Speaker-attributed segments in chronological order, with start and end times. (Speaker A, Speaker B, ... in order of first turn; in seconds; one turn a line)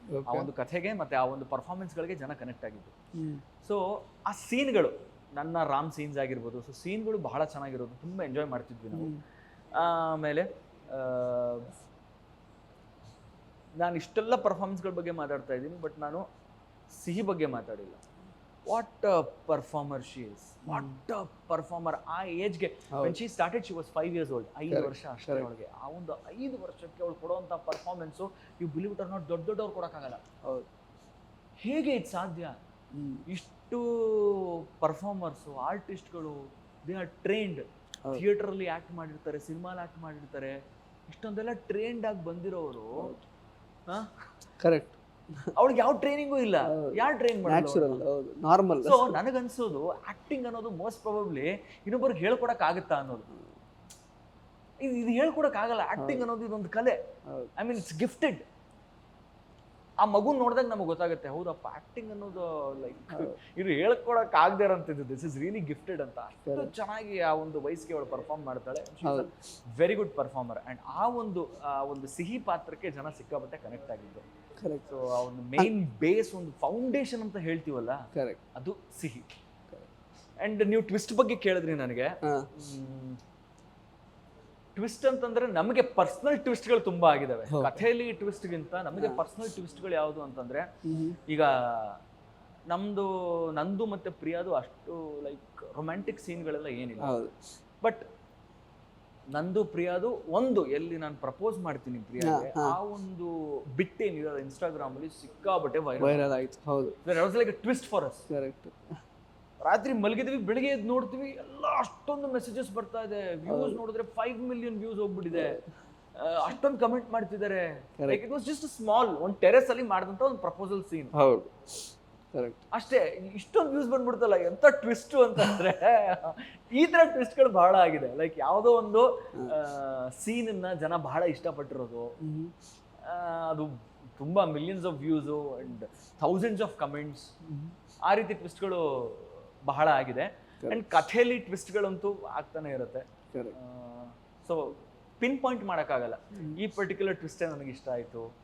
Speaker A: 0.1-0.5
Speaker B: 0.3-2.9
Speaker A: 3.1-3.4
Speaker B: 3.6-9.1
Speaker A: 8.9-9.2
Speaker B: 9.7-11.7
Speaker B: 13.8-16.2
Speaker B: 16.9-18.0
Speaker B: 18.7-30.2
Speaker A: 20.7-21.0
Speaker A: 24.7-25.5
Speaker B: 31.6-32.5
Speaker A: 32.9-33.2
Speaker B: 33.3-40.5
Speaker B: 41.1-43.1
Speaker A: 43.0-43.2
Speaker A: 44.6-45.5
Speaker B: 45.6-48.0
Speaker A: 46.6-49.2
Speaker B: 48.8-53.3
Speaker B: 54.8-57.0
Speaker A: 56.0-56.3
Speaker B: 57.6-58.4
Speaker B: 60.0-74.2
Speaker A: 66.5-66.7
Speaker A: 69.0-69.3
Speaker A: 74.6-74.9
Speaker B: 74.9-78.0
Speaker A: 78.1-78.4
Speaker B: 78.5-79.3
Speaker B: 80.4-83.2
Speaker A: 82.2-82.5
Speaker B: 84.8-90.7
Speaker A: 87.5-87.8
Speaker A: 89.0-89.2
Speaker A: 90.8-91.2
Speaker B: 91.3-92.0
Speaker B: 92.7-97.2
Speaker A: 97.0-97.3
Speaker B: 99.3-106.3
Speaker A: 102.2-102.8
Speaker A: 106.0-107.0
Speaker B: 107.0-108.3
Speaker A: 108.3-108.9
Speaker B: 109.6-115.6
Speaker A: 113.5-113.8
Speaker A: 115.3-115.6
Speaker B: 116.2-121.1
Speaker A: 121.1-121.5
Speaker A: 122.3-122.6
Speaker B: 122.7-132.1
Speaker A: 132.2-132.5
Speaker B: 133.0-137.3
Speaker A: 137.5-137.7
Speaker B: 138.1-148.3